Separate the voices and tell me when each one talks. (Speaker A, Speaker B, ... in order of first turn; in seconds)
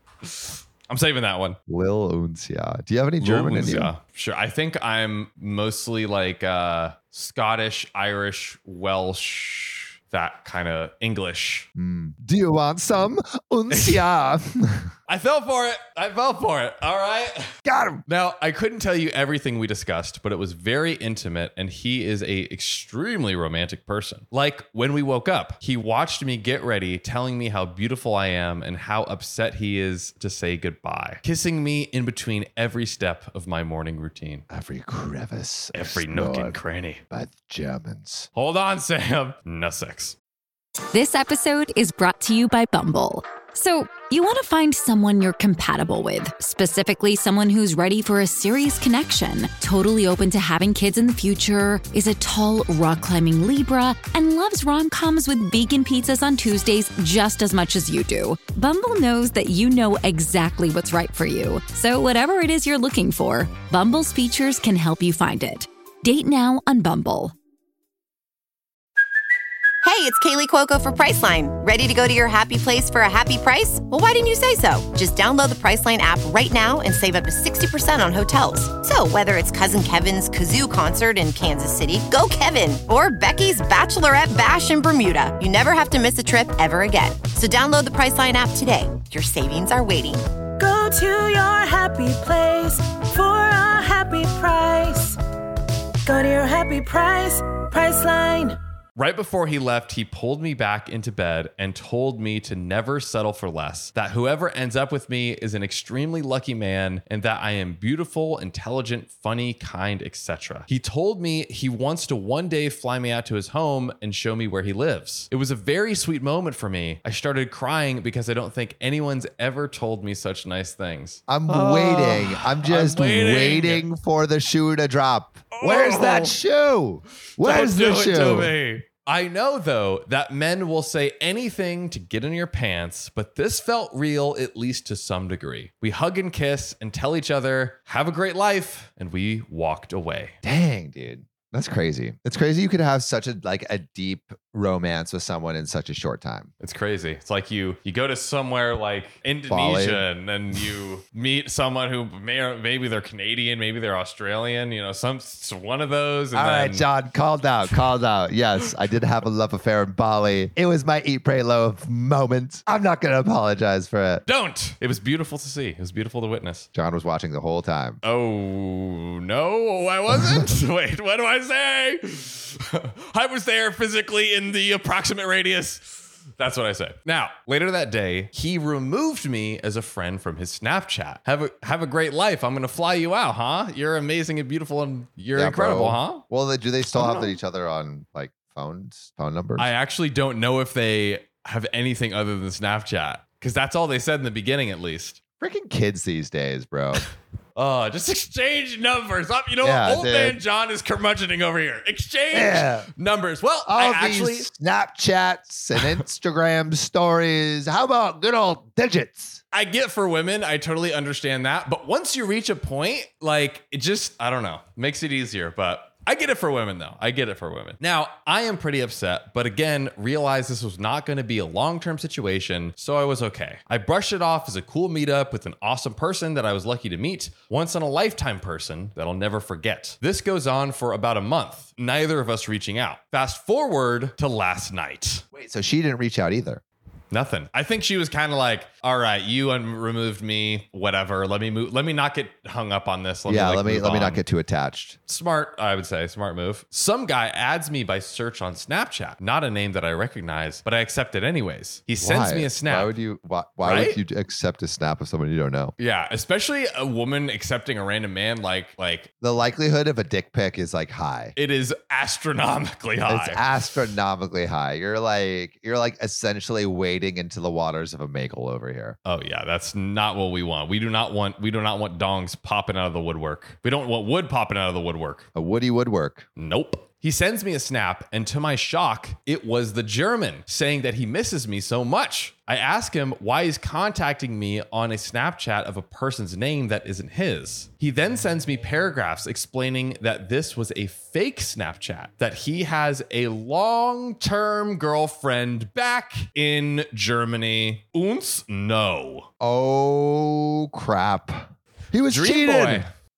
Speaker A: 0.2-1.6, 3.2-11.7, 13.7-14.0, 15.1-17.5, 18.1-34.5, 35.7-37.0, 38.3-40.1, 99.0-123.9, 125.5-126.4, 127.4-140.4, 146.6-156.9, 164.2-166.7, 168.0-186.2, 186.9-187.3, 189.6-195.2, 197.6-204.5, 209.5-235.2, 237.1-244.2, 245.1-252.9, 253.6-254.0, 255.8-259.1, 261.4-263.4, 269.0-275.3, 276.4-299.3, 302.1-302.9
Speaker B: 1.7-3.9, 11.8-14.9, 17.6-18.0, 34.5-36.6, 37.1-38.3, 121.3-128.5, 140.4-146.5, 149.5-150.1, 156.3-164.2, 166.7-168.0, 170.1-170.4, 185.3-189.7, 195.4-197.0, 199.6-200.4, 202.3-202.9, 203.7-209.4, 235.3-236.6, 243.3-245.0, 252.0-255.7, 259.2-261.3, 263.1-269.0, 275.3-276.3, 299.4-302.9
Speaker C: 40.9-67.3
Speaker D: 69.8-90.2
Speaker E: 90.6-95.2, 96.0-98.6